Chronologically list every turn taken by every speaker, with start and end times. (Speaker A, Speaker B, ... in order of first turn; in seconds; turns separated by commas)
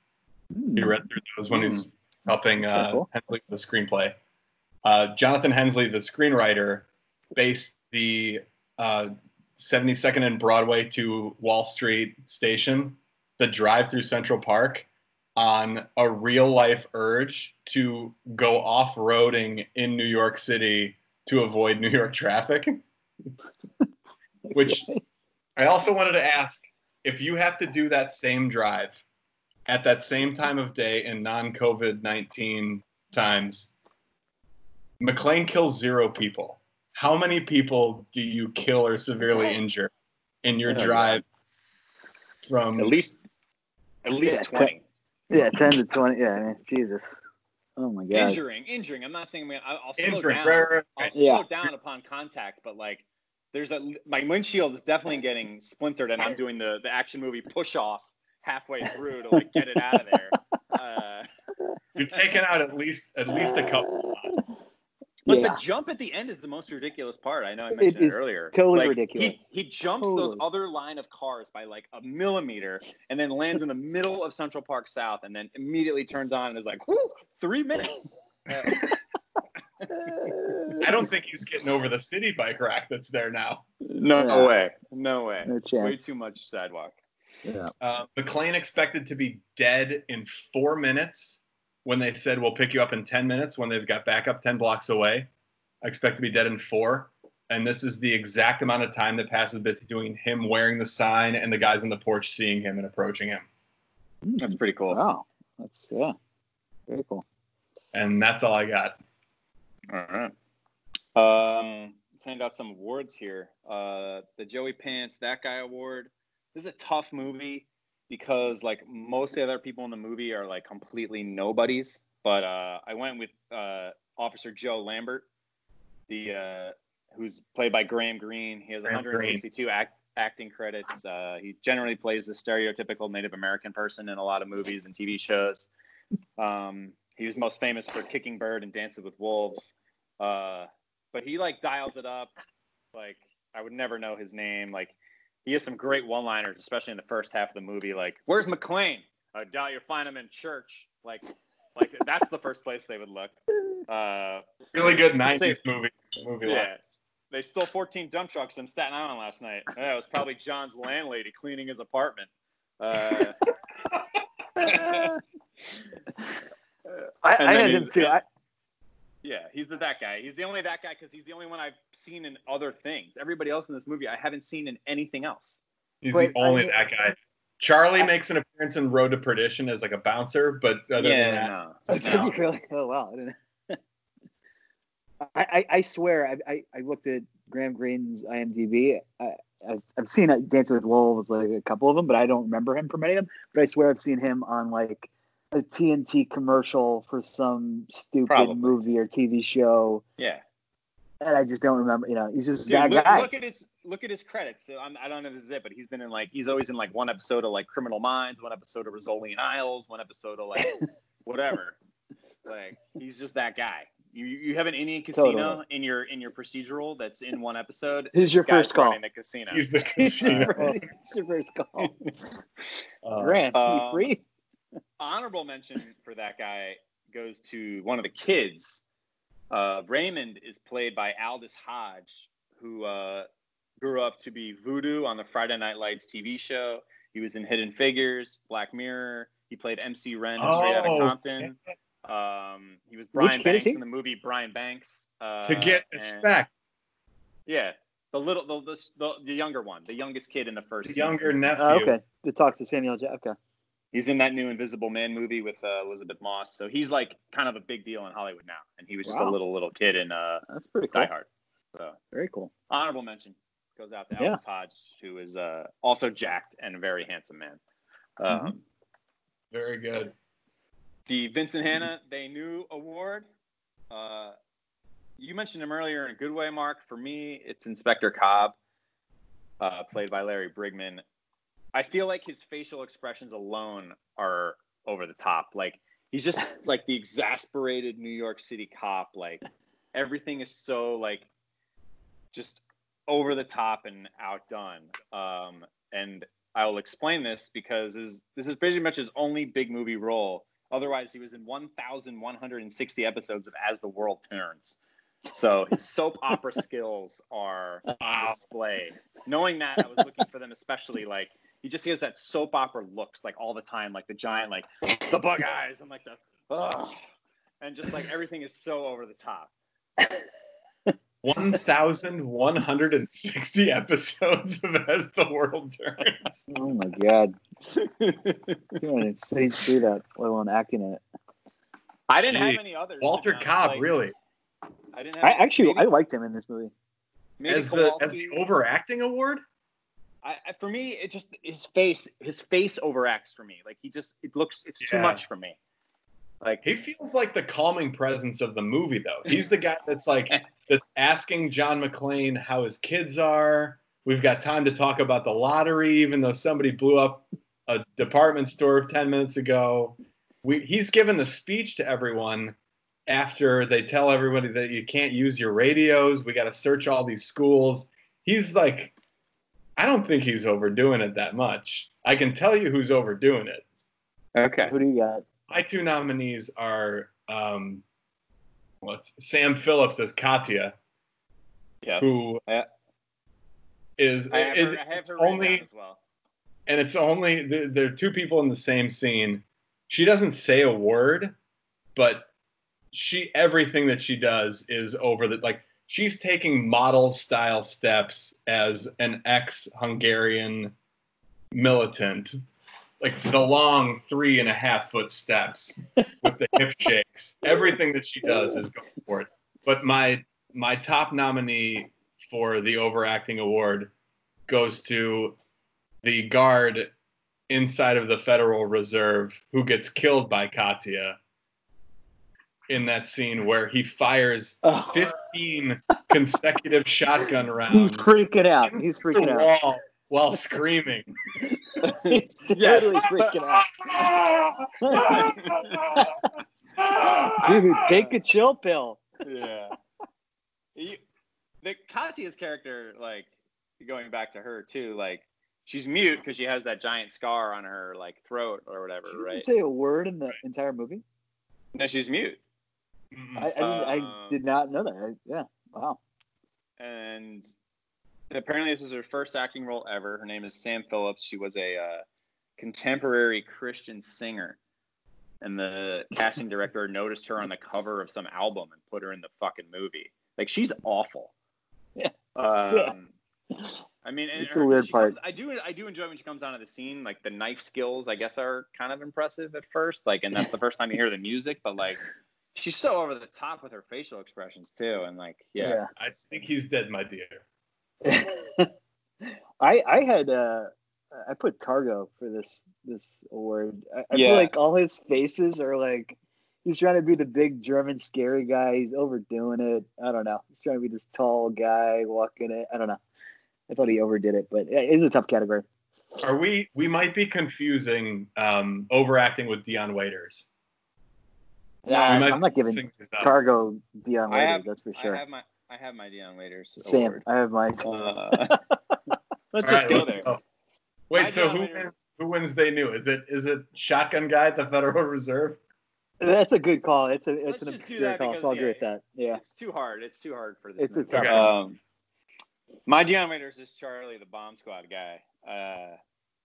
Speaker A: 0.5-1.0, Speaker B: 0.8-4.1, Speaker A: 2.7-3.0, Speaker B: 4.8-22.8, Speaker A: 24.5-25.0, Speaker B: 24.5-24.8, Speaker B: 25.6-29.0, Speaker B: 29.7-33.7, Speaker B: 35.0-39.9, Speaker B: 40.4-41.2, Speaker A: 40.7-41.1, Speaker B: 42.5-42.9, Speaker C: 42.8-43.2, Speaker C: 44.0-44.8, Speaker A: 44.2-44.7, Speaker A: 45.3-47.1, Speaker A: 47.8-48.4, Speaker C: 48.1-61.3, Speaker B: 50.0-51.1, Speaker A: 51.1-51.4, Speaker B: 62.0-64.3, Speaker A: 63.3-64.4, Speaker C: 65.2-78.9, Speaker A: 65.3-65.6, Speaker A: 67.8-69.4, Speaker A: 70.0-70.4, Speaker A: 79.9-80.9, Speaker B: 80.8-83.6, Speaker C: 83.8-87.0, Speaker A: 84.2-84.5, Speaker A: 85.5-86.1, Speaker A: 87.4-87.7, Speaker B: 87.8-95.3, Speaker B: 95.8-103.5, Speaker A: 104.2-106.2, Speaker C: 104.4-105.0, Speaker A: 106.9-107.2, Speaker B: 107.9-109.0, Speaker C: 109.9-110.3, Speaker C: 111.1-125.2, Speaker C: 126.1-135.7, Speaker B: 128.8-129.4, Speaker C: 136.4-142.3, Speaker C: 142.9-154.5, Speaker B: 154.7-156.7, Speaker C: 155.2-155.6, Speaker C: 156.4-163.4, Speaker A: 164.6-165.2, Speaker C: 164.6-165.2, Speaker A: 167.2-168.2, Speaker C: 167.4-168.2, Speaker C: 169.2-175.6, Speaker B: 176.0-182.2, Speaker A: 176.1-177.1, Speaker C: 181.0-182.3, Speaker A: 181.9-183.8, Speaker A: 185.2-200.0, Speaker C: 198.3-198.8, Speaker C: 200.2-200.4, Speaker A: 201.2-203.3, Speaker C: 202.6-211.8, Speaker C: 212.4-220.6, Speaker A: 215.1-215.6, Speaker A: 218.1-219.0, Speaker B: 219.5-220.8, Speaker A: 220.0-221.9, Speaker C: 221.8-222.1, Speaker B: 223.0-223.4, Speaker A: 223.2-224.2, Speaker C: 223.5-224.1, Speaker C: 225.0-228.8, Speaker C: 229.5-233.3, Speaker C: 233.8-246.3, Speaker B: 240.4-241.6, Speaker A: 243.2-243.8, Speaker B: 245.4-246.5, Speaker C: 247.5-251.4, Speaker B: 250.8-251.9, Speaker A: 251.6-253.3, Speaker C: 253.9-262.0, Speaker A: 259.0-259.4, Speaker A: 260.5-261.1, Speaker A: 262.1-262.5, Speaker C: 262.7-267.6, Speaker C: 268.2-268.6, Speaker B: 269.5-270.1, Speaker C: 271.1-273.2, Speaker C: 273.9-274.3, Speaker C: 275.2-278.6, Speaker C: 279.6-281.0, Speaker C: 281.7-289.4, Speaker C: 289.9-291.3, Speaker C: 292.3-304.8, Speaker C: 305.3-317.0, Speaker C: 317.6-319.5, Speaker B: 321.2-326.4, Speaker A: 326.5-327.3, Speaker C: 327.7-328.8, Speaker A: 328.8-331.0, Speaker C: 332.1-333.9, Speaker B: 332.2-334.1, Speaker C: 334.9-335.9, Speaker A: 335.2-336.7, Speaker C: 337.4-338.4, Speaker B: 337.5-339.4, Speaker C: 340.2-345.6, Speaker B: 344.8-345.2, Speaker B: 346.6-362.6, Speaker B: 363.1-368.9, Speaker B: 369.8-373.6, Speaker C: 374.3-374.7, Speaker A: 374.6-375.2, Speaker B: 375.5-377.8, Speaker B: 378.8-380.7, Speaker C: 381.8-382.7, Speaker B: 382.0-382.4, Speaker B: 384.0-385.6, Speaker C: 384.3-386.0, Speaker B: 386.7-391.3, Speaker B: 391.9-392.3, Speaker B: 392.9-400.7, Speaker B: 401.5-402.4, Speaker B: 403.0-413.9, Speaker B: 414.5-415.4, Speaker B: 416.0-416.9, Speaker B: 417.5-421.2, Speaker B: 422.7-428.1, Speaker A: 424.6-425.1, Speaker A: 427.7-429.5, Speaker B: 428.6-431.1, Speaker A: 431.8-434.1, Speaker C: 431.8-433.2, Speaker B: 433.0-436.1, Speaker A: 434.8-435.3, Speaker C: 435.0-435.8, Speaker A: 435.9-436.3, Speaker B: 436.8-437.6, Speaker C: 437.2-438.1, Speaker A: 437.3-439.0, Speaker C: 439.2-439.7, Speaker C: 440.7-441.0, Speaker C: 441.6-443.3, Speaker C: 443.8-449.5, Speaker A: 449.1-451.0, Speaker C: 451.7-452.4, Speaker B: 453.1-453.5, Speaker A: 453.4-456.0, Speaker C: 453.6-454.4, Speaker C: 456.8-457.5, Speaker C: 458.3-462.0, Speaker C: 462.6-464.6, Speaker C: 465.4-471.3, Speaker A: 471.9-472.9, Speaker C: 472.3-473.1, Speaker C: 474.0-482.0, Speaker A: 474.4-475.1, Speaker C: 482.5-485.8, Speaker A: 485.6-485.9, Speaker B: 485.9-487.4, Speaker A: 488.0-488.7, Speaker A: 489.6-503.0, Speaker C: 494.1-494.5, Speaker A: 503.7-505.6, Speaker B: 506.2-510.5, Speaker A: 511.8-515.2, Speaker C: 511.9-512.4, Speaker B: 512.0-513.3, Speaker C: 514.3-517.2, Speaker A: 516.8-518.6, Speaker C: 517.8-518.6, Speaker A: 519.5-520.3, Speaker C: 519.6-520.3, Speaker B: 519.6-520.4, Speaker B: 521.1-525.6, Speaker C: 521.1-521.9, Speaker A: 526.2-529.4, Speaker C: 527.5-531.8, Speaker A: 530.8-531.5, Speaker B: 531.1-531.5, Speaker C: 532.9-536.0